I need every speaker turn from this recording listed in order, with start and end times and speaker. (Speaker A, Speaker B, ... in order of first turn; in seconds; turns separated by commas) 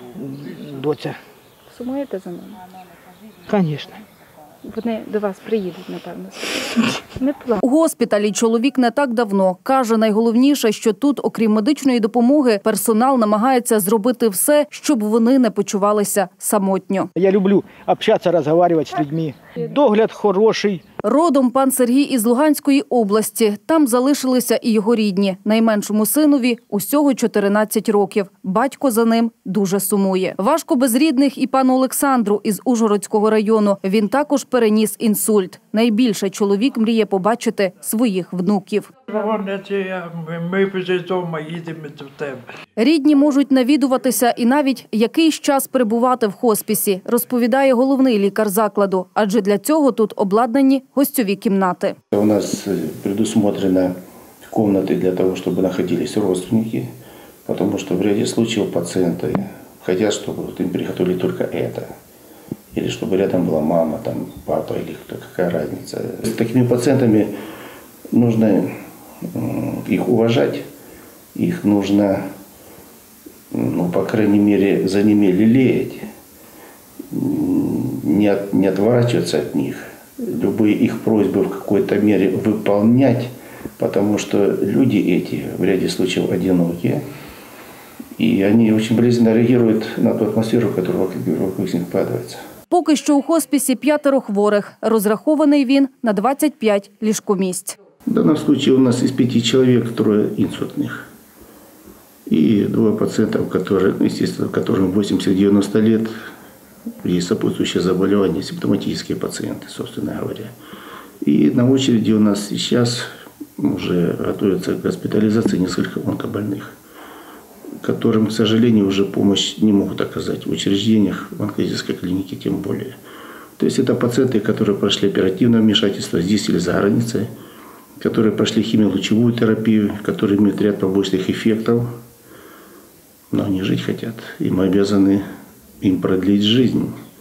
Speaker A: 0.1-1.1, Speaker B: 1.7-2.6, Speaker A: 3.5-4.0, Speaker B: 4.6-7.6, Speaker C: 7.6-17.1, Speaker A: 17.1-20.8, Speaker C: 21.0-38.9, Speaker D: 39.1-42.4, Speaker C: 42.8-52.0, Speaker E: 52.1-53.9, Speaker E: 54.5-56.9, Speaker E: 57.5-61.9, Speaker E: 62.7-67.3, Speaker E: 68.1-68.7, Speaker E: 69.2-70.6, Speaker E: 71.3-72.2, Speaker E: 73.5-76.1, Speaker E: 77.1-87.0, Speaker E: 88.2-92.4, Speaker C: 92.7-97.8, Speaker E: 98.1-101.1, Speaker E: 102.3-106.1, Speaker E: 107.0-110.5, Speaker E: 111.2-116.8, Speaker E: 117.8-123.0, Speaker E: 123.6-127.3, Speaker E: 128.0-131.9, Speaker E: 133.3-135.2, Speaker E: 135.8-136.9